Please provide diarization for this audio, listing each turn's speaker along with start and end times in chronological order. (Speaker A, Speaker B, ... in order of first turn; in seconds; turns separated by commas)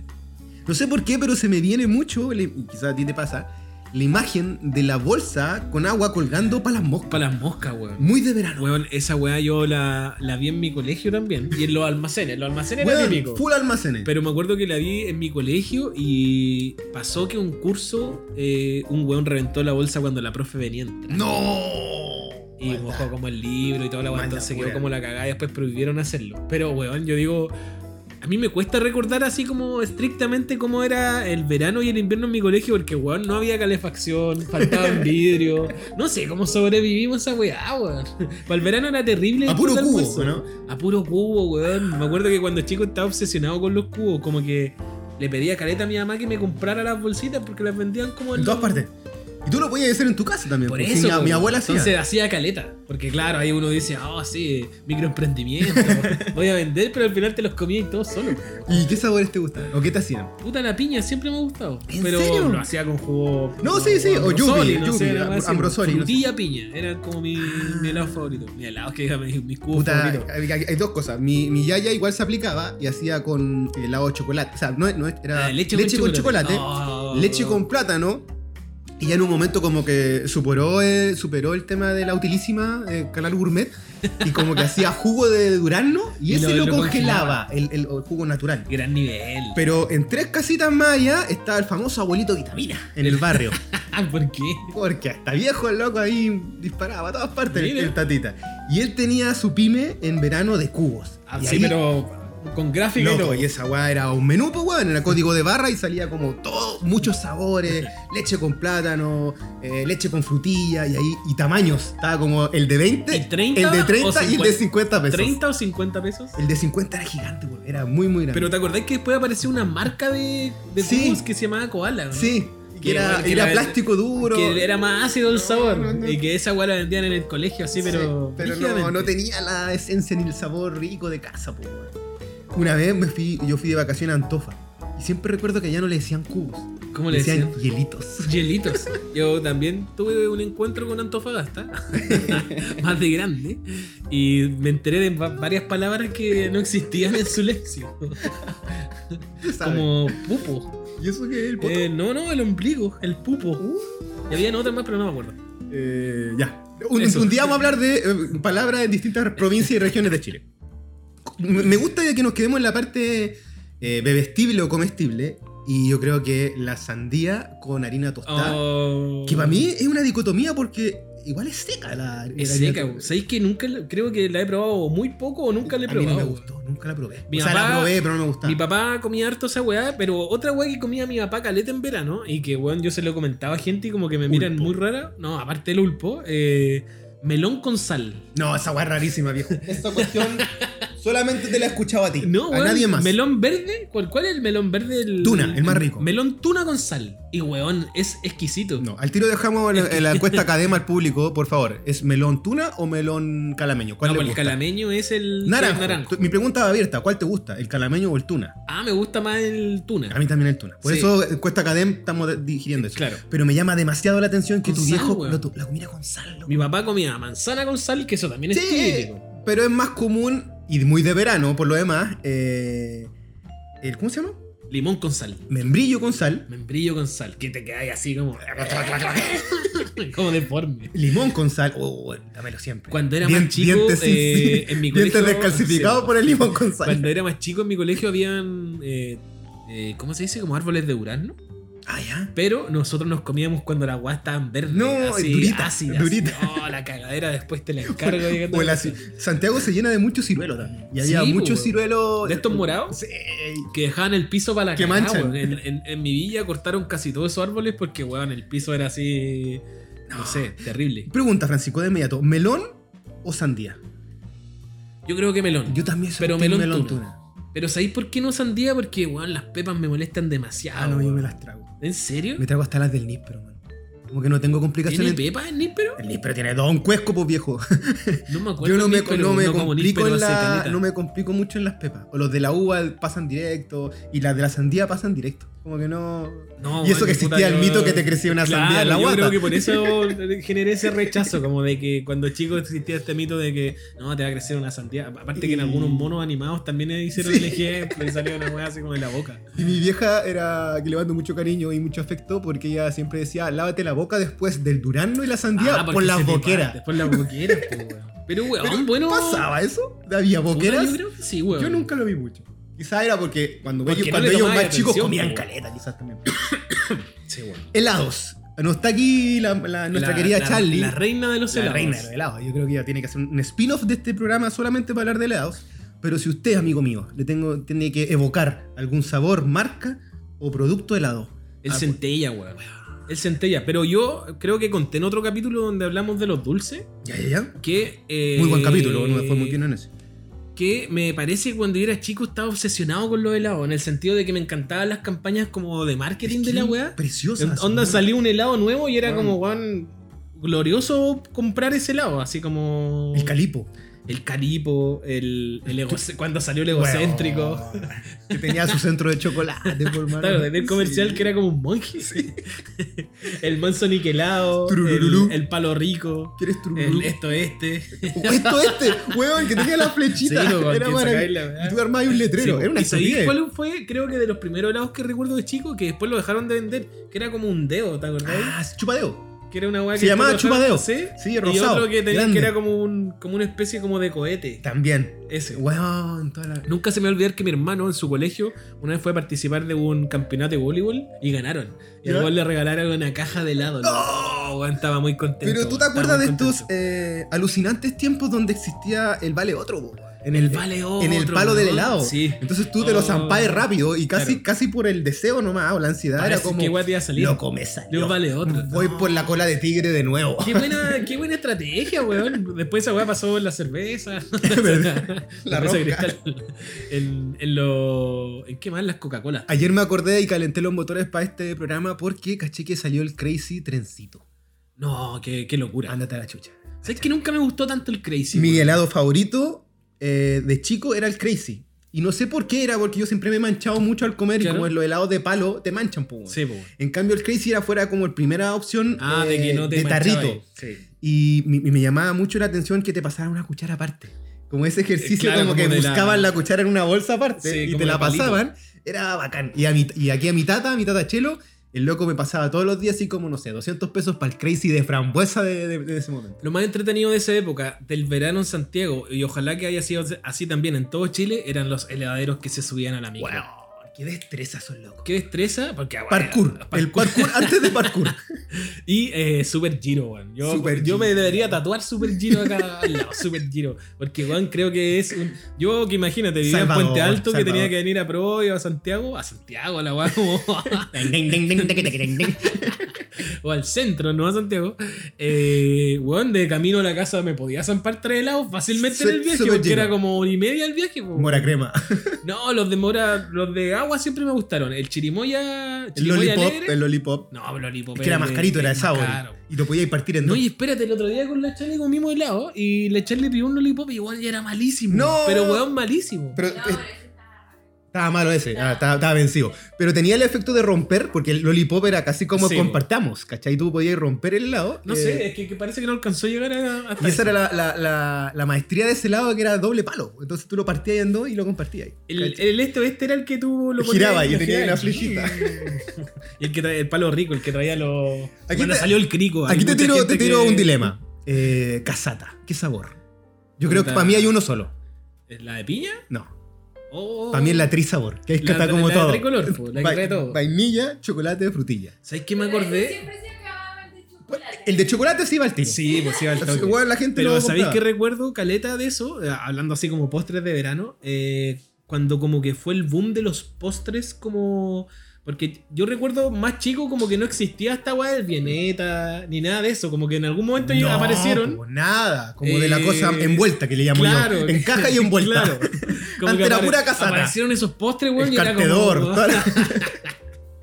Speaker A: 0.7-7.2, Speaker B: 7.1-13.4, Speaker A: 8.0-8.7, Speaker A: 12.8-14.1, Speaker B: 14.0-21.4, Speaker A: 21.1-23.1, Speaker B: 22.6-27.5, Speaker A: 24.1-24.9, Speaker B: 28.2-48.9, Speaker A: 34.6-35.1, Speaker A: 39.5-40.5, Speaker A: 48.4-48.9, Speaker A: 49.5-51.9, Speaker B: 50.7-59.0, Speaker A: 55.6-56.3, Speaker A: 58.7-60.3, Speaker B: 60.4-70.3, Speaker A: 61.9-62.7, Speaker A: 63.6-66.3, Speaker A: 67.4-68.3, Speaker A: 69.7-78.3, Speaker B: 75.3-77.6, Speaker A: 79.0-88.7, Speaker B: 86.3-87.4, Speaker B: 88.7-89.6, Speaker A: 89.5-93.6, Speaker B: 93.0-94.7, Speaker A: 94.7-101.8, Speaker B: 97.5-98.0, Speaker B: 101.3-103.5, Speaker A: 103.0-115.4, Speaker B: 113.1-116.4, Speaker A: 116.4-118.5, Speaker B: 118.3-129.1, Speaker A: 120.8-121.2, Speaker A: 122.1-124.7, Speaker A: 125.3-126.2, Speaker A: 127.8-131.9, Speaker A: 132.5-138.8, Speaker B: 136.9-137.6, Speaker B: 138.2-150.8, Speaker A: 142.0-142.8, Speaker A: 149.4-150.2, Speaker A: 151.0-151.9, Speaker B: 151.6-153.6, Speaker A: 153.6-154.0, Speaker B: 154.3-155.4, Speaker A: 155.7-160.4, Speaker B: 157.0-157.6, Speaker A: 161.2-168.6, Speaker B: 168.2-169.7, Speaker A: 169.2-173.1, Speaker B: 172.4-176.5, Speaker A: 175.6-178.6, Speaker B: 177.3-188.3, Speaker A: 184.3-184.7, Speaker A: 188.3-193.2, Speaker B: 189.8-190.9, Speaker B: 192.2-198.9, Speaker A: 195.2-196.1, Speaker A: 198.8-204.6, Speaker B: 199.7-200.5, Speaker B: 204.0-206.3, Speaker A: 205.4-208.6, Speaker B: 208.7-210.2, Speaker A: 210.1-216.7, Speaker B: 210.8-211.1, Speaker B: 212.8-213.2, Speaker B: 214.6-215.5, Speaker B: 216.5-219.2, Speaker A: 218.5-223.1, Speaker A: 223.8-224.4, Speaker B: 224.7-225.4, Speaker A: 225.5-226.5, Speaker B: 226.5-230.9, Speaker A: 228.4-229.4, Speaker A: 230.9-237.1, Speaker B: 232.9-241.4, Speaker A: 241.9-242.3, Speaker B: 242.3-249.0, Speaker A: 244.7-246.6, Speaker A: 247.9-253.7, Speaker B: 251.0-253.0, Speaker B: 253.7-261.1, Speaker A: 254.8-255.6, Speaker A: 260.1-263.8, Speaker B: 265.1-267.0, Speaker A: 265.7-267.2, Speaker B: 267.5-272.4, Speaker A: 270.7-271.7, Speaker A: 272.4-275.2, Speaker B: 274.9-276.0, Speaker A: 276.0-290.2, Speaker B: 278.3-280.8, Speaker B: 286.6-299.5, Speaker A: 290.9-291.4, Speaker A: 295.4-296.2, Speaker A: 297.1-298.1, Speaker A: 299.6-307.8, Speaker B: 305.6-309.5, Speaker A: 308.6-311.0, Speaker B: 310.5-311.9, Speaker A: 311.5-316.3, Speaker B: 313.9-315.4, Speaker B: 316.6-317.7, Speaker A: 317.7-321.0, Speaker B: 319.9-322.1, Speaker A: 321.5-332.0, Speaker B: 331.6-336.9, Speaker A: 337.0-337.6, Speaker B: 337.6-339.6, Speaker A: 338.3-339.9, Speaker B: 340.6-353.4, Speaker A: 346.2-348.1, Speaker A: 349.0-349.4, Speaker A: 353.1-353.7, Speaker B: 354.1-358.8, Speaker A: 356.7-361.3, Speaker B: 359.7-378.6, Speaker A: 362.0-362.4, Speaker A: 364.7-365.4, Speaker A: 366.4-367.1, Speaker A: 368.0-373.4, Speaker A: 378.2-379.3, Speaker B: 379.5-384.6, Speaker A: 379.9-382.5, Speaker A: 384.6-386.7, Speaker B: 385.3-385.6, Speaker B: 386.7-396.7, Speaker A: 392.0-392.3, Speaker A: 393.8-394.3, Speaker A: 395.4-411.1, Speaker B: 400.4-404.4, Speaker B: 406.2-409.3, Speaker B: 410.4-419.5, Speaker A: 414.4-416.1, Speaker A: 419.5-424.2, Speaker B: 424.8-426.0, Speaker A: 425.9-427.1, Speaker B: 426.8-428.8, Speaker A: 428.3-440.4, Speaker B: 434.4-434.7, Speaker B: 436.3-436.7, Speaker B: 439.0-440.8, Speaker A: 441.0-456.4, Speaker B: 445.0-446.3, Speaker B: 447.4-448.4, Speaker B: 456.4-463.4, Speaker A: 463.2-465.1, Speaker B: 465.1-491.5, Speaker A: 466.1-468.2, Speaker A: 470.4-473.2, Speaker A: 476.4-477.8, Speaker A: 480.8-482.9, Speaker A: 488.8-489.9, Speaker A: 491.1-492.2, Speaker B: 492.2-496.8, Speaker A: 496.0-497.3, Speaker B: 497.3-499.4, Speaker A: 497.9-500.4, Speaker B: 500.2-506.4, Speaker A: 504.9-505.7, Speaker A: 506.3-506.9, Speaker C: 506.4-507.6, Speaker A: 507.9-515.3, Speaker C: 508.5-508.9, Speaker B: 512.3-512.8, Speaker B: 514.9-517.4, Speaker A: 517.0-522.4, Speaker B: 522.1-530.9, Speaker A: 523.8-525.8, Speaker A: 528.5-533.0, Speaker A: 533.6-534.7, Speaker B: 533.6-534.4, Speaker B: 535.3-536.0, Speaker B: 536.9-537.7, Speaker A: 537.3-541.9, Speaker B: 538.4-540.4, Speaker B: 542.0-543.1, Speaker C: 542.3-545.0, Speaker A: 544.3-545.8, Speaker B: 545.6-561.6, Speaker C: 545.9-546.4, Speaker A: 546.4-547.8, Speaker A: 560.6-567.4, Speaker B: 562.4-570.1, Speaker A: 568.2-569.9